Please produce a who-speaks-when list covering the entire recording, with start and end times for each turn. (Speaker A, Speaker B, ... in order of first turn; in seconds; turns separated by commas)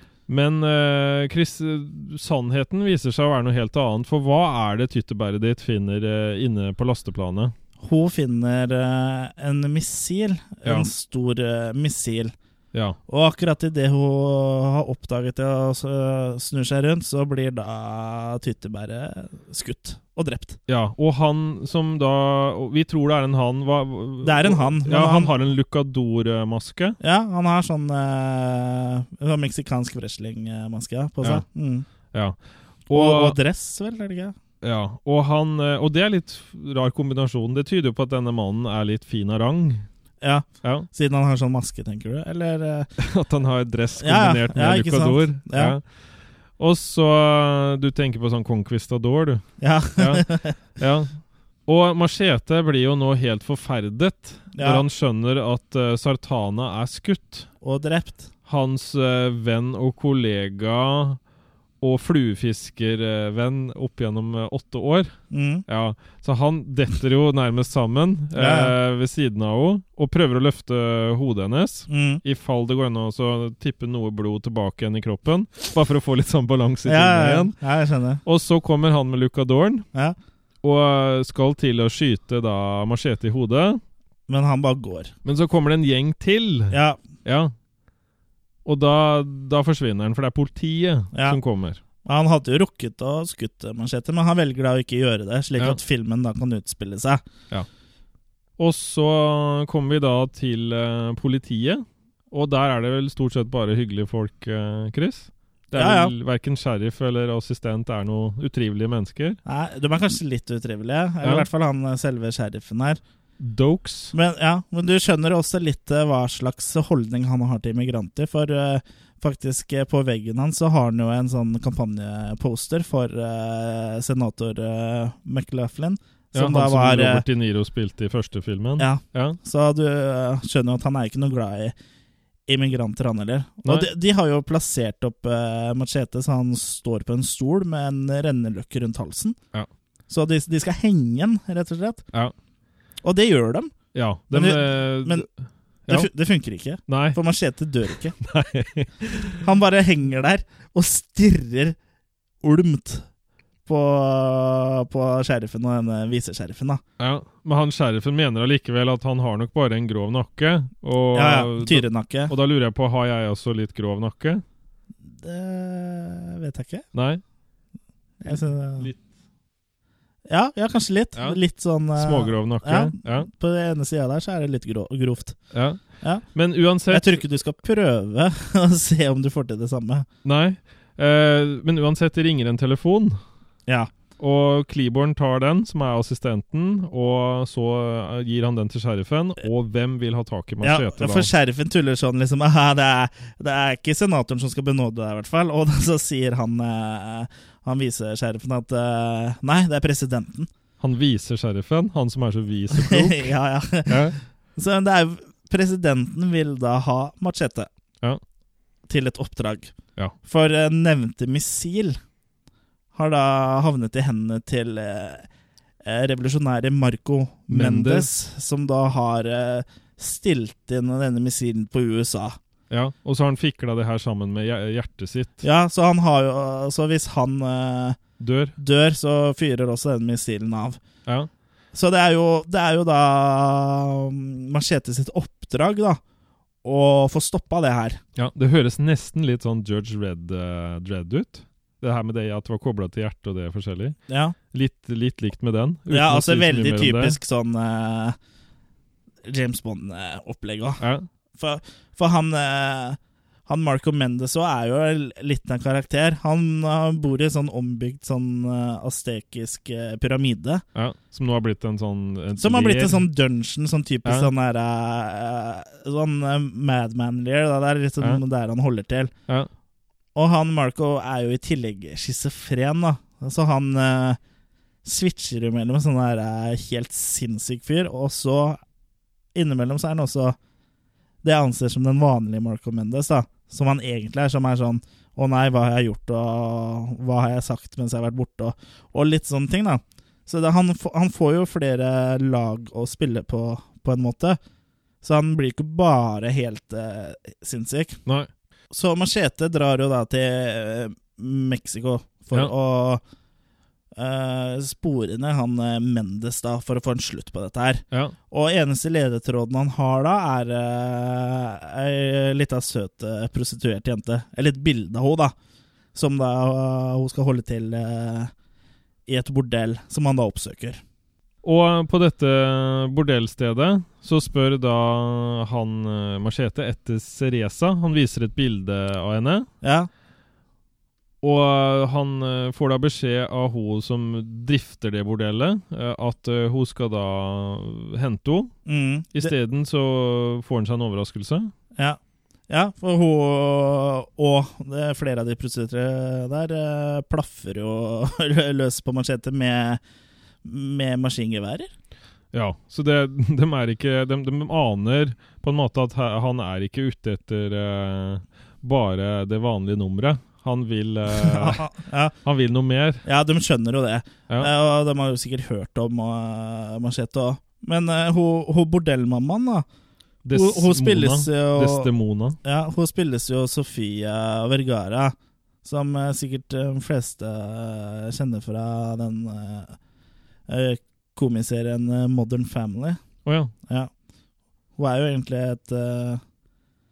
Speaker A: 0.3-7.5, Speaker B: 7.8-12.3, Speaker A: 12.7-13.0, Speaker B: 13.1-20.6, Speaker A: 20.7-27.0, Speaker B: 24.2-25.3, Speaker B: 27.0-31.9, Speaker A: 32.1-32.4, Speaker A: 32.9-33.4, Speaker B: 32.9-34.3, Speaker A: 34.6-39.9, Speaker B: 40.2-42.9, Speaker A: 43.0-45.8, Speaker B: 44.0-45.7, Speaker A: 46.6-57.5, Speaker B: 49.6-50.6, Speaker B: 54.5-54.8, Speaker B: 57.6-58.3, Speaker A: 58.5-61.2, Speaker A: 61.8-65.2, Speaker B: 65.3-65.6, Speaker A: 65.7-77.5, Speaker B: 68.3-68.7, Speaker B: 71.9-72.2, Speaker B: 76.8-78.2, Speaker A: 78.2-79.9, Speaker A: 80.6-83.8, Speaker B: 84.3-85.1, Speaker A: 85.2-87.5, Speaker B: 86.7-87.0, Speaker A: 88.6-91.8, Speaker B: 91.1-91.4, Speaker B: 92.0-97.2, Speaker A: 98.6-109.4, Speaker B: 105.8-106.1, Speaker B: 109.5-113.0, Speaker A: 113.4-114.1, Speaker B: 114.1-127.2, Speaker A: 126.3-129.4, Speaker B: 128.8-131.7, Speaker B: 132.5-139.4, Speaker B: 140.1-142.0, Speaker B: 143.0-143.7, Speaker A: 143.9-145.3, Speaker B: 144.3-145.2, Speaker B: 145.9-148.2, Speaker A: 146.9-147.2, Speaker A: 148.2-149.4, Speaker B: 149.4-151.8, Speaker B: 152.4-153.1, Speaker B: 153.7-156.8, Speaker A: 157.0-164.4, Speaker B: 161.1-162.3, Speaker B: 165.1-166.8, Speaker A: 166.9-167.2, Speaker B: 168.2-168.9, Speaker A: 168.3-169.0, Speaker B: 170.3-175.4, Speaker A: 171.9-173.3, Speaker A: 175.5-177.2, Speaker B: 176.9-180.1, Speaker A: 180.2-183.2, Speaker A: 184.2-191.3, Speaker B: 190.6-200.5, Speaker A: 200.8-203.3, Speaker B: 202.7-207.7, Speaker A: 203.8-204.2, Speaker B: 208.9-212.0, Speaker B: 212.9-215.3, Speaker B: 215.8-222.4, Speaker A: 217.5-218.1, Speaker A: 222.7-225.4, Speaker B: 225.4-228.0, Speaker A: 228.2-228.5, Speaker B: 228.6-230.8, Speaker B: 231.7-236.0, Speaker B: 236.6-238.0, Speaker A: 238.2-244.0, Speaker B: 244.1-244.3, Speaker A: 244.5-247.2, Speaker B: 245.9-248.2, Speaker B: 249.2-250.8, Speaker A: 250.8-251.1, Speaker B: 251.3-260.6, Speaker A: 260.7-263.0, Speaker B: 262.4-269.1, Speaker A: 264.0-264.3, Speaker B: 270.1-274.2, Speaker B: 274.8-278.6, Speaker B: 279.3-280.4, Speaker B: 281.2-294.4, Speaker B: 295.0-298.0, Speaker B: 298.7-303.0, Speaker B: 304.0-315.3, Speaker B: 315.9-318.3, Speaker B: 319.1-320.8, Speaker A: 321.4-329.5, Speaker B: 329.6-329.9, Speaker A: 331.2-338.5, Speaker B: 338.6-339.3, Speaker A: 339.1-341.5, Speaker B: 342.5-349.8, Speaker B: 350.4-351.7, Speaker A: 352.3-361.6, Speaker B: 361.1-362.1, Speaker A: 362.2-363.0, Speaker B: 363.0-369.6, Speaker A: 370.2-372.4, Speaker B: 370.3-371.9, Speaker B: 372.4-379.8, Speaker B: 380.5-383.0, Speaker A: 383.2-383.5, Speaker B: 384.8-386.2